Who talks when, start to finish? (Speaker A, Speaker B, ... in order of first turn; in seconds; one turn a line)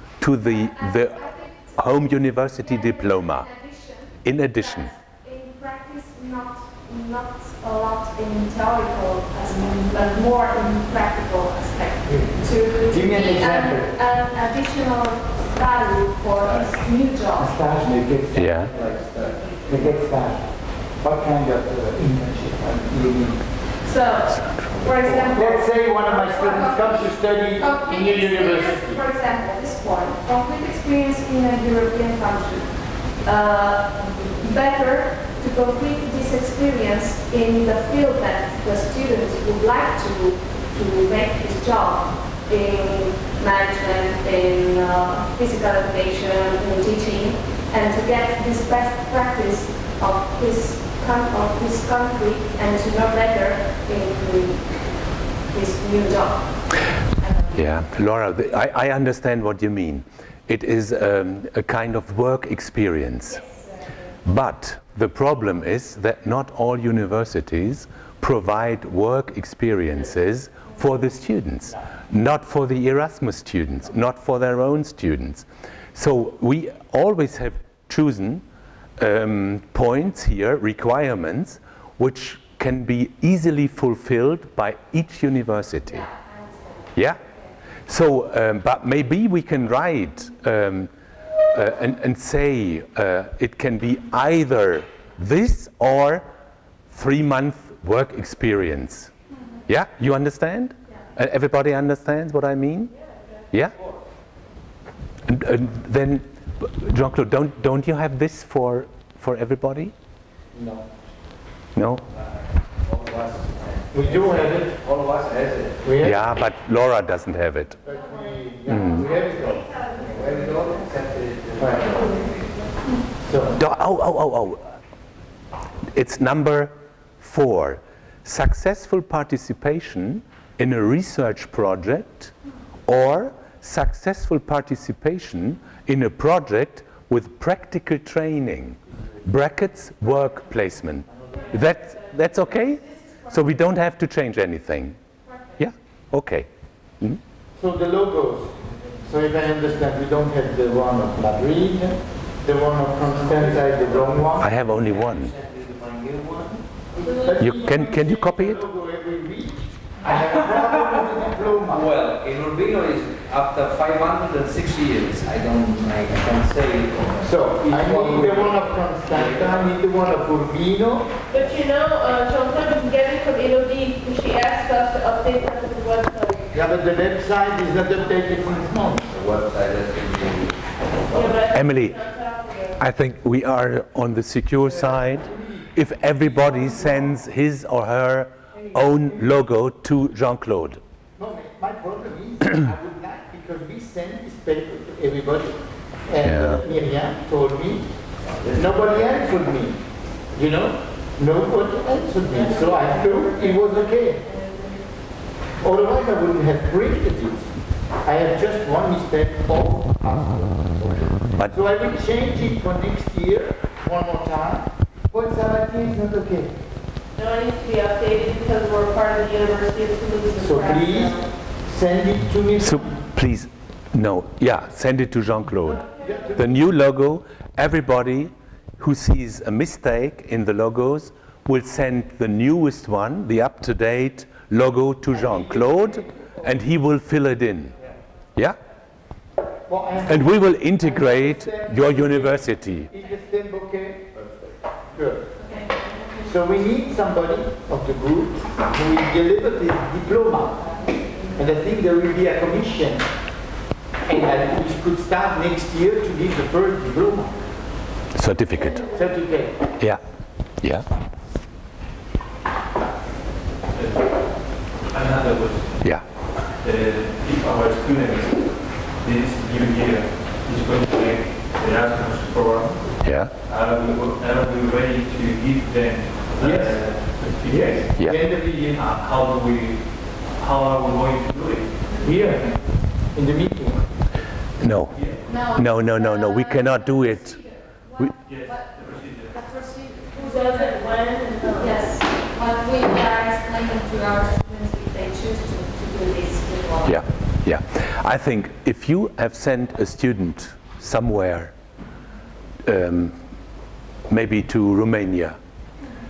Speaker A: 0.2-3.5
Speaker B: 0.5-2.0
Speaker B: 2.6-17.8
Speaker A: 4.2-4.9
Speaker C: 12.1-13.9
Speaker D: 16.4-16.8
Speaker C: 17.4-19.0
Speaker D: 17.8-20.0
Speaker A: 18.3-18.7
Speaker C: 19.7-23.7
Speaker B: 23.8-57.6
Speaker C: 25.0-29.0
Speaker A: 57.5-63.5
Speaker A: 64.2-78.4
Speaker A: 79.0-86.1
Speaker B: 85.9-86.9
Speaker A: 86.9-87.2
Speaker A: 87.9-90.9
Speaker A: 91.5-96.2
Speaker A: 96.9-99.1
Speaker A: 99.7-102.9
Speaker A: 105.2-109.9
Speaker C: 110.5-110.9
Speaker A: 111.7-112.0
Speaker D: 112.8-115.9
Speaker C: 113.9-114.8
Speaker C: 115.8-116.3
Speaker A: 116.0-117.8
Speaker C: 117.8-120.1
Speaker A: 118.7-119.1
Speaker D: 119.1-122.5
Speaker C: 121.6-121.9
Speaker C: 123.2-123.6
Speaker A: 123.5-124.8
Speaker A: 125.9-132.3
Speaker A: 132.9-145.0
Speaker E: 141.3-141.9
Speaker A: 145.6-146.5
Speaker C: 147.6-154.5
Speaker D: 153.0-156.7
Speaker A: 154.4-155.3
Speaker C: 157.0-161.9
Speaker E: 157.0-157.5
Speaker A: 157.4-158.7
Speaker D: 161.7-169.8
Speaker C: 167.2-171.1
Speaker E: 171.3-176.5
Speaker C: 176.5-179.1
Speaker D: 179.1-181.4
Speaker E: 181.1-182.8
Speaker A: 181.5-182.0
Speaker A: 182.8-190.8
Speaker C: 184.6-187.1
Speaker C: 188.5-189.2
Speaker C: 191.2-197.9
Speaker A: 196.2-196.6
Speaker D: 198.3-199.1
Speaker C: 198.5-199.8
Speaker C: 200.3-204.2
Speaker E: 202.3-204.8
Speaker C: 205.6-216.6
Speaker A: 211.3-211.6
Speaker E: 217.1-221.3
Speaker C: 220.4-223.0
Speaker A: 222.6-237.7
Speaker E: 225.7-226.2
Speaker C: 225.7-226.5
Speaker C: 235.1-236.6
Speaker C: 239.7-245.3
Speaker A: 240.0-242.9
Speaker B: 245.4-246.3
Speaker C: 246.2-253.1
Speaker C: 254.0-257.4
Speaker A: 258.1-258.9
Speaker C: 258.9-259.6
Speaker A: 260.6-260.9
Speaker F: 263.7-266.0
Speaker F: 266.6-282.4
Speaker A: 273.0-273.3
Speaker C: 276.4-278.8
Speaker C: 282.0-282.4
Speaker C: 283.1-283.8
Speaker A: 284.6-287.4
Speaker F: 284.9-285.2
Speaker B: 285.2-288.7
Speaker F: 288.2-289.4
Speaker B: 289.3-290.9
Speaker E: 290.1-291.8
Speaker B: 291.6-297.0
Speaker A: 296.8-301.5
Speaker A: 302.6-303.2
Speaker A: 304.1-305.4